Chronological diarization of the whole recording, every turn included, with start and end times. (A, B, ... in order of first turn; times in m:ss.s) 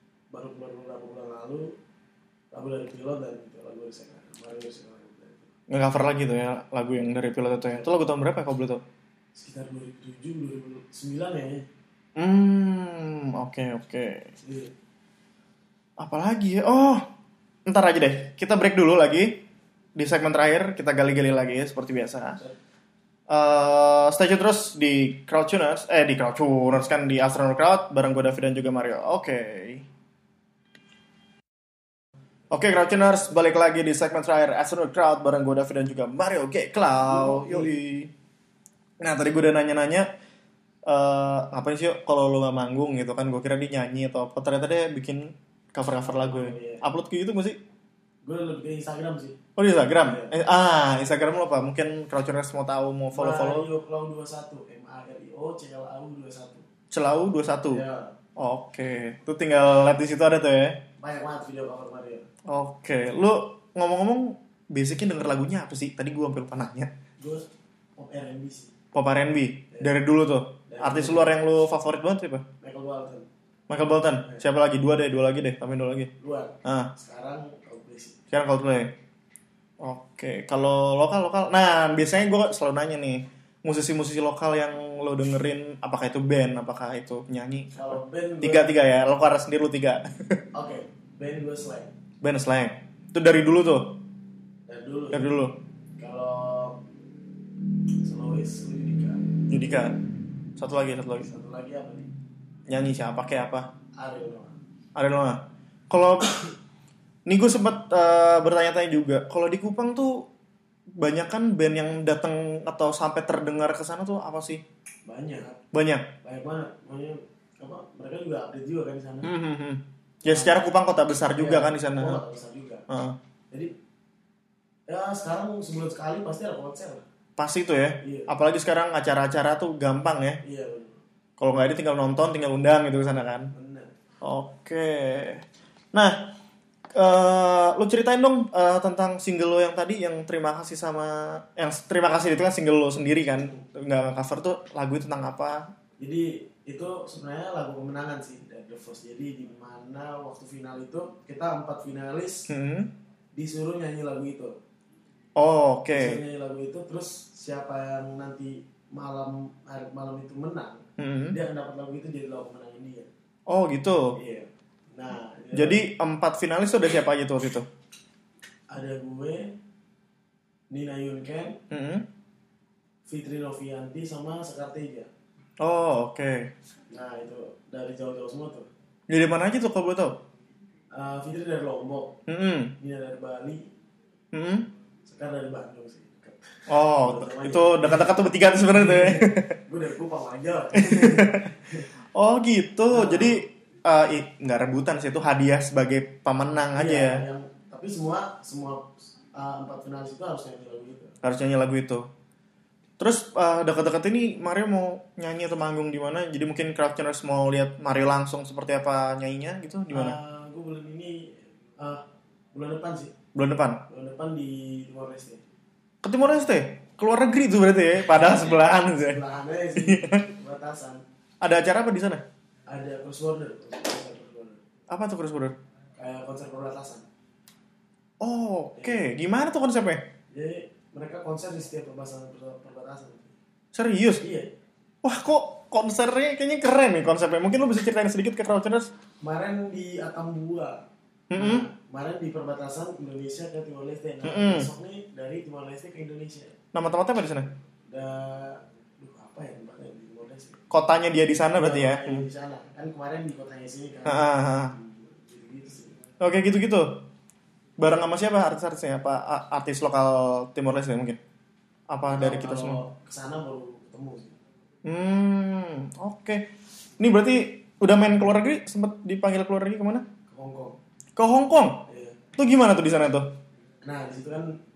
0:00.3-0:01.7 A
0:02.5-0:05.5 A
0:05.7-0:08.8 B
0:09.4-0:11.6 A
0:12.2-0:14.3 B
0:14.4-0:14.7 A
0:16.0-0:17.0 B
0:17.6-0:19.4 B
0:20.0-0:22.4 B
0:23.3-0:29.8 B
0:32.5-0:38.1 B
0:37.0-0:37.7 A
0:39.0-0:40.1 B
0:40.8-0:47.6 B
0:46.0-0:46.8 A
0:48.2-0:49.4 A
0:49.6-0:53.7 B
0:50.0-0:50.3 A
0:53.1-0:56.6 A
0:56.9-0:57.8 B
0:57.7-0:58.1 A
0:58.4-1:00.8 B
1:01.0-1:02.2 A
1:02.5-1:06.9 B
1:07.2-1:07.4 A
1:08.0-1:08.7 A
1:08.9-1:12.4 B
1:10.7-1:11.3 A
1:12.6-1:13.2 A
1:13.7-1:16.1 B
1:16.2-1:18.2 A
1:16.6-1:16.9 B
1:18.3-1:18.9 B
1:19.8-1:30.4 B
1:27.7-1:28.7 A
1:30.5-1:31.9 A
1:32.2-1:34.0 B
1:34.7-1:35.3 A
1:35.1-1:35.6 B
1:36.0-1:36.8 A
1:38.0-1:39.3 A
1:39.5-1:40.0 B
1:40.6-1:41.3 B
1:41.2-1:42.1 A
1:42.7-1:43.7 B
1:44.0-1:44.6 A
1:44.9-1:46.3 B
1:47.3-1:50.2 B
1:51.0-1:54.6 B
1:55.0-1:55.6 A
1:55.7-1:56.1 B
1:56.2-1:59.3 A
1:59.2-2:02.2 B
2:00.3-2:00.6 A
2:01.4-2:02.8 A
2:02.9-2:03.2 B
2:04.9-2:07.0 A
2:07.4-2:10.4 B
2:08.0-2:08.3 A
2:10.4-2:10.9 A
2:11.4-2:13.5 B
2:13.5-2:13.9 A
2:14.2-2:16.3 B
2:16.9-2:25.6 B
2:23.4-2:23.6 A
2:26.0-2:32.5 A
2:32.5-2:32.9 B
2:33.4-2:34.5 A
2:35.4-2:36.2 B
2:35.9-2:43.1 A
2:41.0-2:41.4 B
2:43.5-2:44.2 B
2:44.1-2:45.8 A
2:45.5-2:47.7 B
2:48.7-2:49.5 A
2:50.7-2:51.6 A
2:51.7-2:52.0 B
2:53.1-2:55.1 A
2:55.6-2:56.5 B
2:56.9-2:58.7 A
2:59.1-3:00.2 B
3:00.9-3:02.2 A
3:02.3-3:02.7 B
3:02.8-3:03.6 A
3:04.3-3:04.7 B
3:05.0-3:08.0 A
3:06.7-3:09.5 B
3:08.7-3:11.9 A
3:10.8-3:11.5 B
3:12.1-3:17.2 B
3:12.9-3:13.4 A
3:16.7-3:21.1 A
3:21.2-3:22.0 B
3:23.0-3:30.2 B
3:29.9-3:33.1 A
3:33.3-3:33.8 B
3:33.9-3:35.4 A
3:36.0-3:39.2 B
3:38.1-3:41.0 A
3:39.8-3:40.2 B
3:41.4-3:42.2 B
3:42.7-3:44.6 A
3:44.9-3:45.6 B
3:46.0-3:47.0 A
3:48.2-3:50.1 B
3:48.7-3:49.0 A
3:50.3-3:53.3 A
3:53.7-3:54.2 B
3:54.2-3:54.5 A
3:55.0-3:58.9 B
3:59.2-4:00.8 A
4:01.3-4:01.7 B
4:01.3-4:06.5 A
4:04.2-4:04.7 B
4:06.7-4:07.5 B
4:07.9-4:10.6 A
4:10.7-4:12.2 B
4:11.5-4:15.9 A
4:14.0-4:14.7 B
4:16.2-4:17.0 B
4:17.8-4:21.2 B
4:21.9-4:22.8 B
4:22.1-4:24.3 A
4:24.8-4:30.0 B
4:30.3-4:30.8 A
4:31.2-4:31.8 B
4:31.9-4:32.2 A
4:32.4-4:33.3 B
4:33.8-4:34.6 A